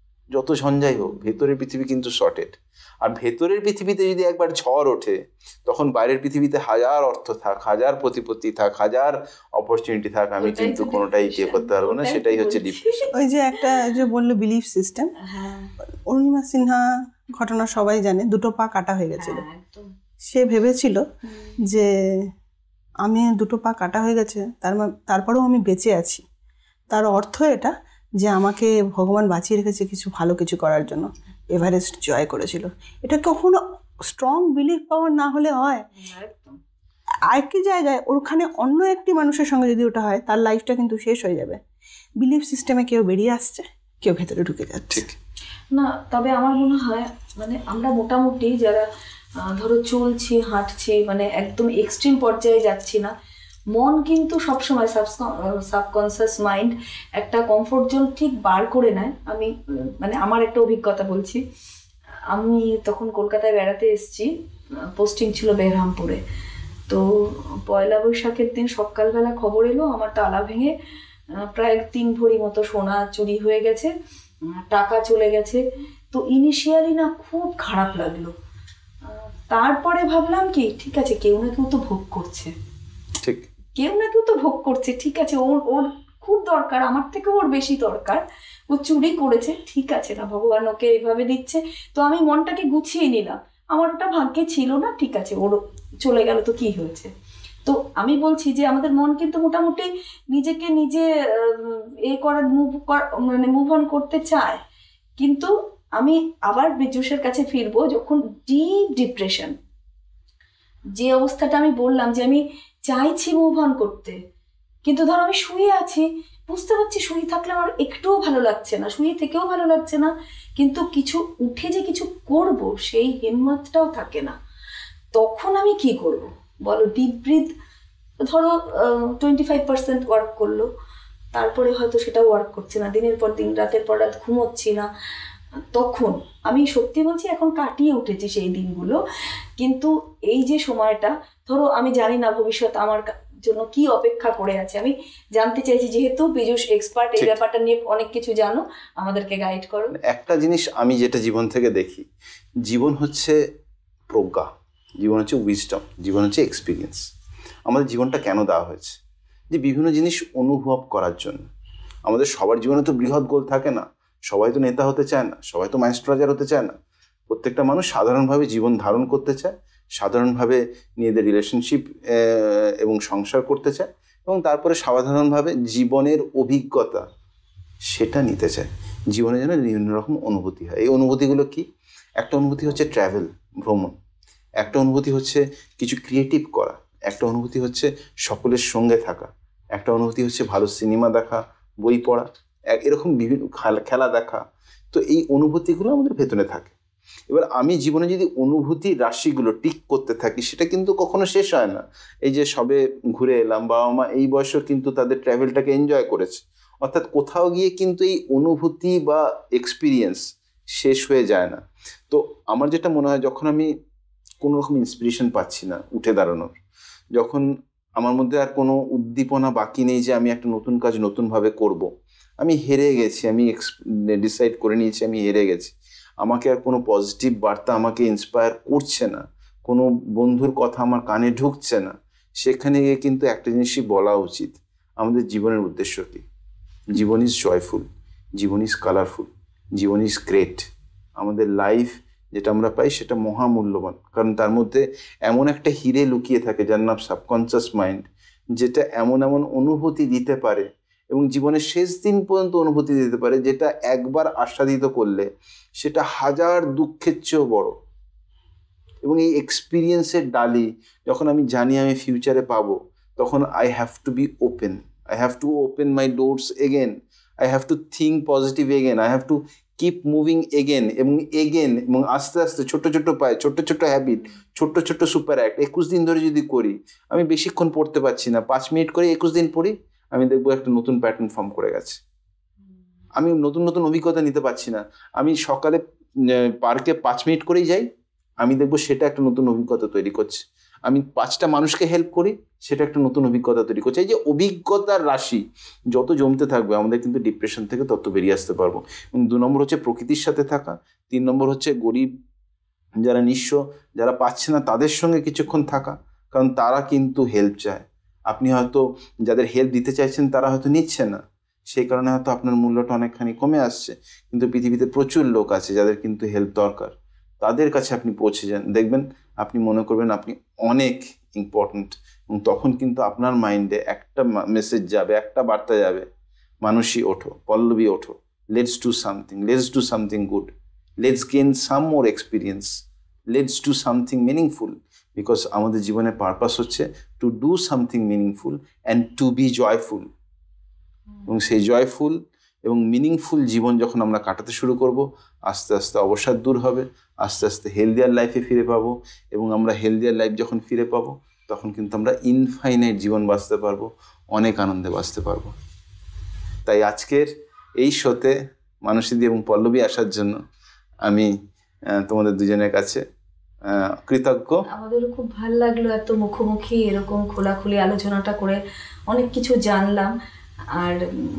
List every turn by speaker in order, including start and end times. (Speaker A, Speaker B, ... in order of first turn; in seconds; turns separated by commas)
Speaker A: 0.3-13.1, Speaker B: 10.4-13.6, Speaker C: 13.1-15.1, Speaker B: 15.2-15.7, Speaker C: 16.1-16.8, Speaker C: 17.4-19.4, Speaker B: 19.2-19.9, Speaker C: 20.3-21.0, Speaker B: 21.3-21.6, Speaker C: 23.0-26.2, Speaker C: 26.9-35.8, Speaker B: 36.0-36.6, Speaker C: 37.3-41.6, Speaker C: 42.2-45.0, Speaker B: 45.7-48.8, Speaker B: 49.5-53.1, Speaker B: 53.7-61.4, Speaker B: 62.3-64.3, Speaker B: 65.0-66.2, Speaker B: 67.7-70.7, Speaker B: 71.4-73.9, Speaker B: 74.5-75.6, Speaker B: 76.1-78.3, Speaker B: 79.0-82.5, Speaker B: 83.8-97.1, Speaker B: 97.7-104.6, Speaker B: 105.2-109.5, Speaker B: 111.0-114.2, Speaker B: 114.8-124.3, Speaker B: 125.1-127.5, Speaker B: 128.2-130.7, Speaker B: 131.3-134.9, Speaker B: 135.7-139.0, Speaker B: 139.6-149.9, Speaker A: 150.1-152.0, Speaker A: 152.7-153.3, Speaker A: 154.1-154.5, Speaker A: 155.0-157.0, Speaker A: 157.7-159.0, Speaker A: 159.5-161.4, Speaker A: 162.1-166.7, Speaker A: 167.3-177.0, Speaker A: 177.9-181.6, Speaker A: 182.2-183.9, Speaker A: 184.6-196.7, Speaker A: 197.3-210.2, Speaker A: 210.7-213.7, Speaker A: 214.4-216.6, Speaker A: 217.1-217.4, Speaker A: 218.0-221.9, Speaker A: 222.4-236.2, Speaker A: 236.9-237.8, Speaker A: 238.4-240.6, Speaker A: 241.2-248.0, Speaker A: 248.6-255.3, Speaker A: 255.8-257.7, Speaker A: 259.0-282.0, Speaker A: 283.2-285.8, Speaker A: 286.6-287.9, Speaker A: 288.4-302.1, Speaker A: 303.0-326.0, Speaker A: 326.6-330.5, Speaker A: 331.0-332.7, Speaker A: 333.3-340.1, Speaker A: 341.3-355.5, Speaker A: 356.6-360.4, Speaker A: 362.0-363.0, Speaker A: 363.7-364.6, Speaker B: 364.7-368.6, Speaker B: 369.1-370.1, Speaker B: 370.8-371.0